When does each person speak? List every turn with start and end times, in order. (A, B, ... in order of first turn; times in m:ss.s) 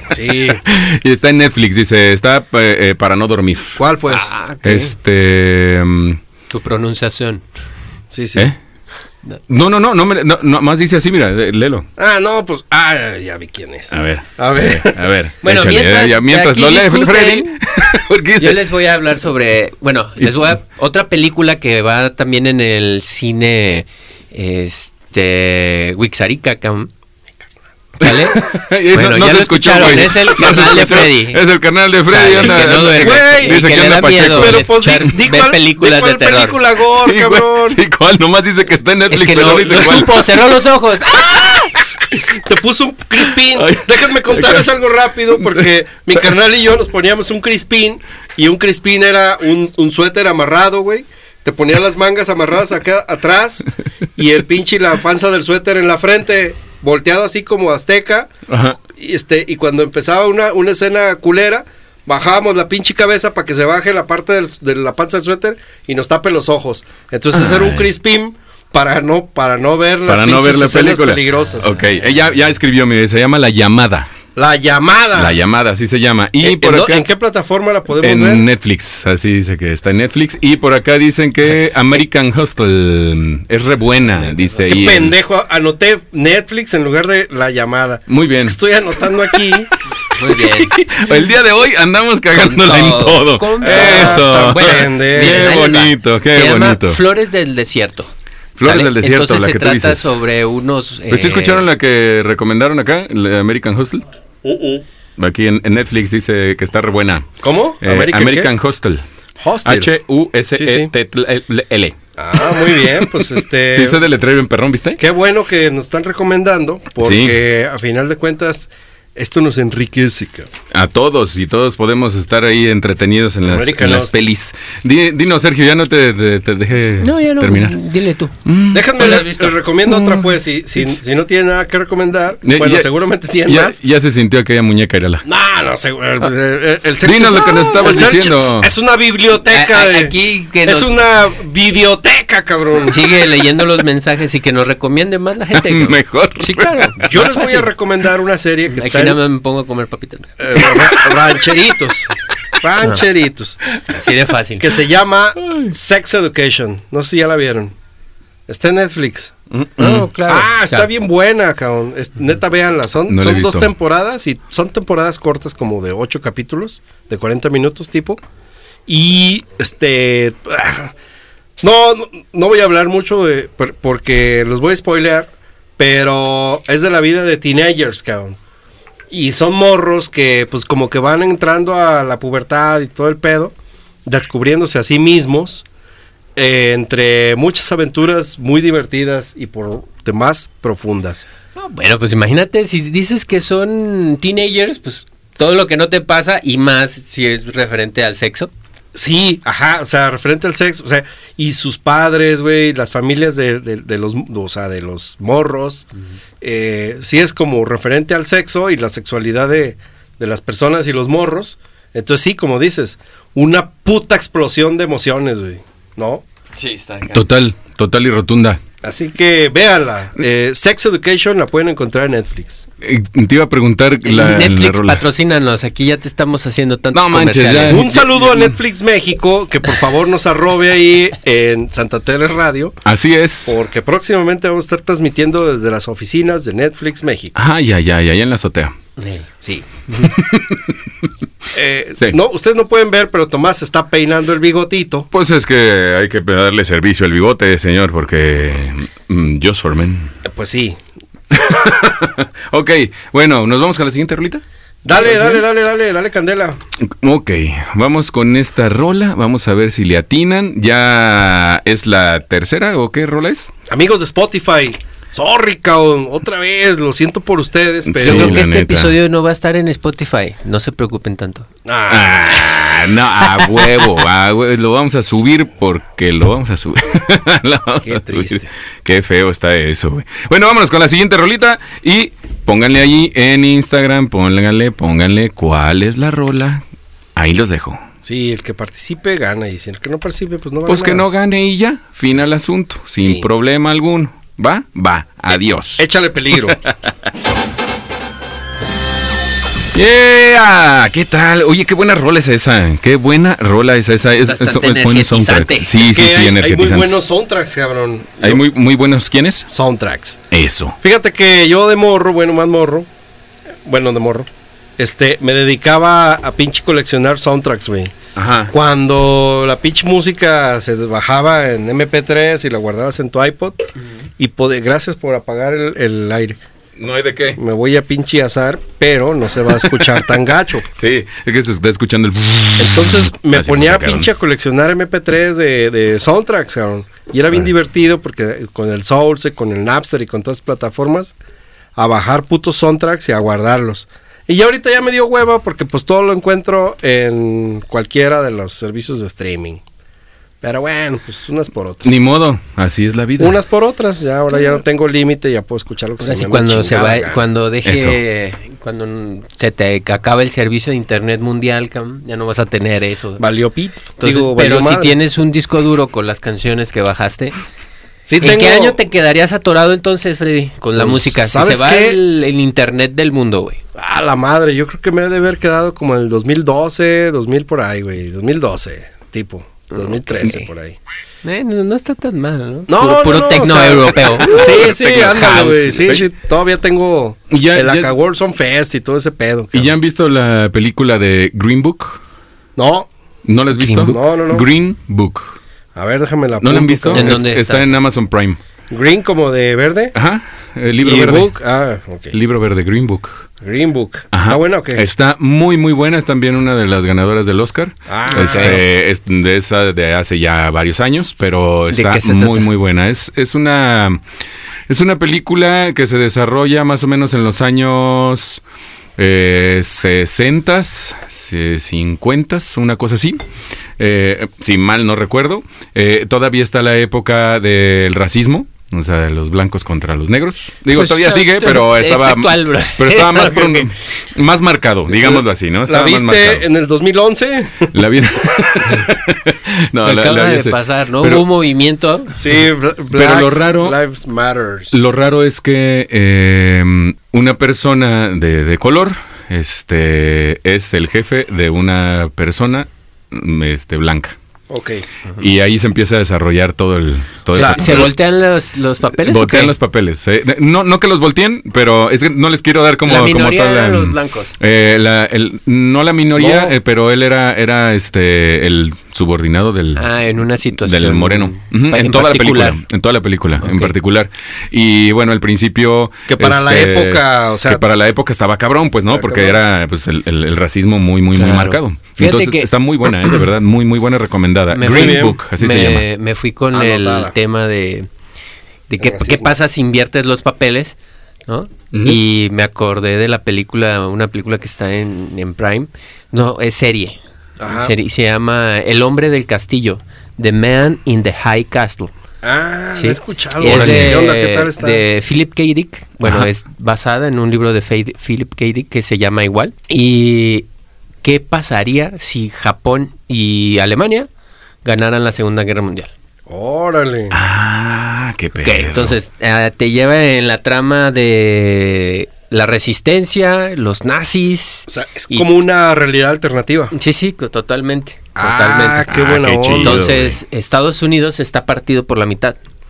0:00.1-0:00.6 A
0:00.7-0:03.8 B
0:03.8-0:04.3 A
0:04.1-0:05.0 C
0:04.6-0:06.2 B
0:06.5-0:07.4 C
0:08.1-0:08.5 A
0:09.5-0:11.9 B
0:12.0-0:15.0 A
0:13.9-0:18.6 B
0:15.4-0:17.5 C
0:18.4-0:26.9 C
0:28.0-0:31.4 C
0:28.0-0:34.7 B
0:32.0-0:36.6 C
0:32.8-0:33.7 A
0:34.2-0:37.8 A
0:37.0-0:40.3 B
0:39.1-0:41.7 C
0:42.3-0:53.7 A
0:43.5-0:44.7 B
0:45.4-0:45.7 B
0:54.2-1:11.8 A
0:58.5-0:58.8 B
1:07.3-1:07.9 B
1:10.1-1:14.1 B
1:14.4-1:15.4 A
1:15.2-1:17.0 B
1:16.4-1:18.5 A
1:18.0-1:25.2 B
1:24.3-1:24.6 C
1:24.6-1:29.7 A
1:28.1-1:28.6 B
1:29.2-1:29.6 B
1:30.1-1:30.9 C
1:30.4-1:37.0 B
1:32.4-1:38.1 C
1:33.6-1:35.5 A
1:38.6-1:40.1 B
1:38.6-1:41.6 C
1:41.1-1:44.0 B
1:44.4-1:44.8 A
1:45.2-1:49.0 B
1:47.4-1:48.5 A
1:49.4-1:49.9 A
1:49.6-1:52.0 B
1:50.6-1:50.9 A
1:52.2-1:54.0 A
1:53.7-1:55.0 B
1:55.0-2:00.5 A
1:57.0-1:57.4 B
2:00.7-2:07.8 B
2:03.4-2:04.1 A
2:07.0-2:08.3 C
2:08.4-2:10.3 B
2:08.7-2:13.8 A
2:12.4-2:12.9 B
2:13.4-2:15.2 B
2:15.2-2:20.1 A
2:17.0-2:18.7 B
2:19.5-2:21.0 C
2:20.6-2:23.0 A
2:22.8-2:27.7 C
2:25.5-2:27.0 B
2:27.0-2:29.2 A
2:28.7-2:30.8 C
2:30.4-2:33.6 A
2:30.9-2:31.2 B
2:33.9-2:34.8 C
2:34.6-2:37.7 A
2:38.5-2:39.3 A
2:39.5-2:40.1 B
2:39.8-2:40.9 C
2:40.3-2:48.2 A
2:43.1-2:43.7 B
2:48.9-2:50.9 A
2:51.6-2:58.4 A
2:59.1-3:03.5 A
3:04.1-3:05.6 A
3:06.4-3:11.3 A
3:11.6-3:18.5 C
3:19.0-3:25.9 A
3:26.4-3:36.2 A
3:36.6-3:37.2 C
3:37.1-3:38.6 B
3:38.8-3:42.7 A
3:42.8-3:45.0 B
3:44.0-3:47.9 C
3:46.9-3:48.5 B
3:47.7-3:52.8 A
3:52.8-3:53.6 B
3:53.5-3:57.3 A
3:57.4-3:58.8 B
3:59.0-3:59.3 C
3:59.4-3:59.7 A
4:00.0-4:00.8 B
4:01.5-4:05.1 A
4:05.1-4:10.1 B
4:10.2-4:10.8 A
4:11.3-4:14.4 B
4:14.8-4:16.6 A
4:17.0-4:23.5 B
4:23.7-4:28.4 A
4:27.9-4:28.9 B
4:28.0-4:31.5 C
4:31.6-4:33.0 A
4:31.9-4:46.6 B
4:37.8-4:38.5 A
4:47.2-4:47.8 B
4:48.0-4:51.1 A
4:50.7-4:56.7 B
4:53.0-4:53.3 A
4:55.8-4:56.6 A
4:59.7-5:06.9 B
5:04.3-5:05.7 C
5:05.8-5:08.4 A
5:08.2-5:09.5 B
5:09.5-5:10.2 A
5:10.3-5:10.8 B
5:10.8-5:12.9 A
5:13.6-5:18.0 A
5:18.2-5:18.5 B
5:18.5-5:23.6 A
5:24.2-5:26.4 A
5:26.8-5:27.4 B
5:27.4-5:30.7 A
5:29.7-5:30.0 B
5:30.8-5:34.1 B
5:32.6-5:41.2 A
5:41.8-5:49.6 A
5:50.4-5:52.0 A
5:51.8-5:53.4 B
5:53.2-5:57.2 A
5:56.0-6:03.2 C
5:57.6-5:58.0 B
6:03.2-6:05.0 A
6:04.0-6:07.3 C
6:08.1-6:08.8 A
6:08.2-6:13.6 C
6:10.8-6:12.0 A
6:13.8-6:20.8 A
6:19.7-6:20.5 C
6:21.2-6:24.7 C
6:22.7-6:29.7 A
6:24.3-6:26.1 B
6:27.3-6:27.9 B
6:29.5-6:32.0 B
6:32.6-6:32.9 A
6:33.3-6:35.4 B
6:33.6-6:34.0 C
6:33.8-6:34.5 A
6:35.8-6:37.2 A
6:36.4-6:38.4 B
6:36.9-6:37.8 C
6:38.7-6:40.0 A
6:40.0-6:41.3 B
6:40.8-6:42.2 A
6:42.1-6:43.2 B
6:43.4-6:44.8 A
6:44.1-6:54.0 B
6:47.9-6:48.6 A
6:48.1-6:48.6 C
6:51.7-6:52.5 C
6:54.7-6:58.4 B
6:59.0-7:03.2 B
7:03.8-7:16.4 B
7:10.7-7:13.7 C
7:14.9-7:17.7 A
7:17.7-7:21.2 B
7:19.8-7:22.2 C
7:22.1-7:24.8 A
7:22.9-7:23.8 B
7:24.7-7:34.2 B
7:34.5-7:34.8 A
7:35.2-7:37.9 B
7:37.3-7:37.9 A
7:37.3-7:39.5 C
7:39.0-7:49.9 B
7:42.8-7:44.3 C
7:46.2-7:46.6 A
7:49.8-7:52.6 C
7:50.6-8:05.9 B
7:53.4-7:53.7 C
7:56.1-7:57.6 A
7:58.9-7:59.4 A
8:01.1-8:02.5 C
8:04.5-8:07.9 C
8:04.6-8:05.2 A
8:06.5-8:07.1 A
8:08.7-8:10.8 C
8:08.8-8:09.3 A
8:11.3-8:21.9 C
8:11.7-8:12.0 B
8:17.4-8:17.7 A
8:22.2-8:24.8 A
8:22.8-8:30.5 C
8:23.4-8:24.0 B
8:31.0-8:34.1 C
8:34.6-8:35.9 C
8:36.3-8:37.2 A
8:37.1-8:39.0 B
8:38.4-8:45.3 C
8:44.7-8:46.7 A
8:46.7-8:48.9 C
8:48.2-8:49.9 A
8:48.9-8:50.2 B
8:49.6-8:52.4 C